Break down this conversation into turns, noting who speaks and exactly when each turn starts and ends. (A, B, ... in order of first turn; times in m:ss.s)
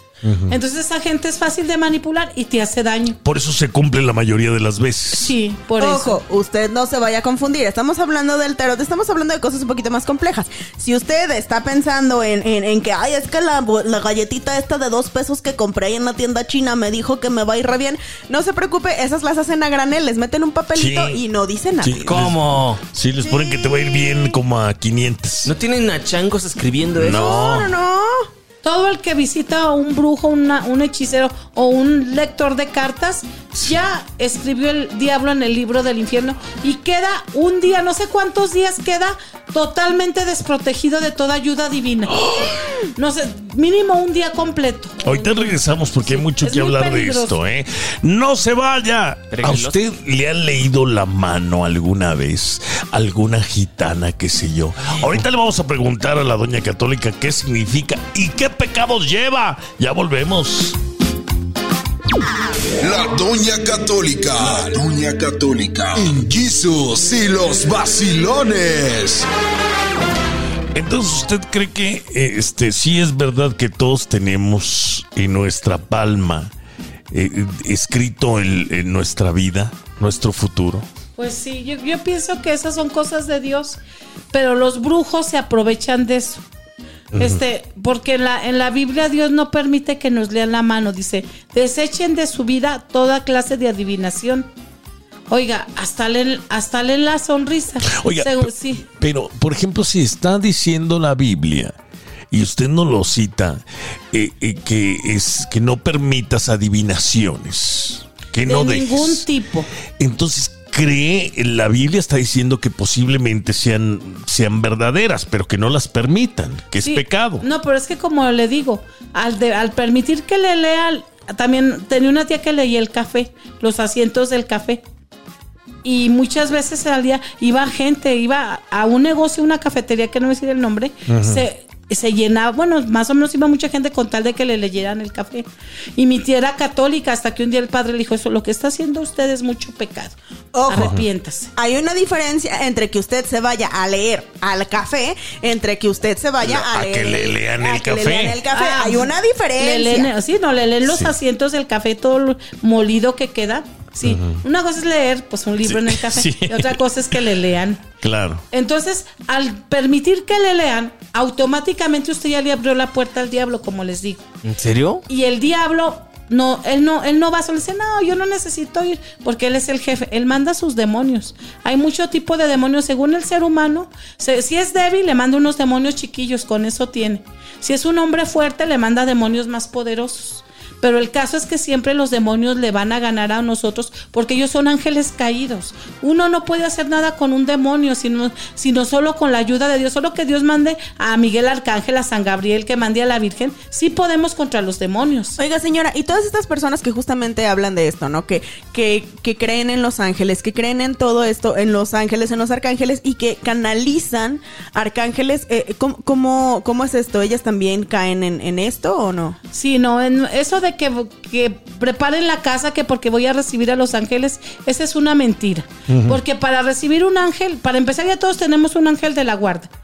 0:00.2-0:00.6 A
0:00.5-0:03.2 B
0:03.2-0:05.3 A
0:05.1-0:06.2 B
0:05.8-0:22.2 C
0:20.7-0:21.2 A
0:21.8-0:25.5 A
0:22.0-0:22.8 D
0:23.2-0:24.2 C
0:25.4-0:27.3 D
0:27.0-0:27.7 A
0:27.1-0:28.3 C
0:28.6-0:42.2 B
0:42.1-0:42.7 A
0:43.0-0:47.4 B
0:45.0-1:00.8 A
0:49.3-0:49.8 D
1:02.8-1:09.3 E
1:10.7-1:16.5 A
1:17.1-1:20.8 A
1:21.2-1:23.8 B
1:24.3-1:26.4 B
1:27.1-1:27.4 A
1:27.2-1:34.5 B
1:35.3-1:38.8 B
1:37.9-1:41.7 A
1:42.3-1:49.3 A
1:48.4-1:49.7 B
1:50.0-1:57.4 A
1:56.8-2:04.8 B
2:05.8-2:20.1 B
2:11.1-2:11.4 A
2:20.5-2:21.0 C
2:20.6-2:21.5 B
2:20.7-2:21.0 A
2:21.6-2:30.1 C
2:26.4-2:28.4 A
2:28.5-2:37.8 B
2:30.8-2:31.1 A
2:34.0-2:34.4 A
2:35.6-2:36.8 A
2:38.0-2:38.4 A
2:38.5-2:44.2 B
2:44.4-2:45.0 D
2:45.1-3:15.4 B
3:15.4-3:29.4 C
3:29.5-3:39.7 B
3:35.9-3:36.2 A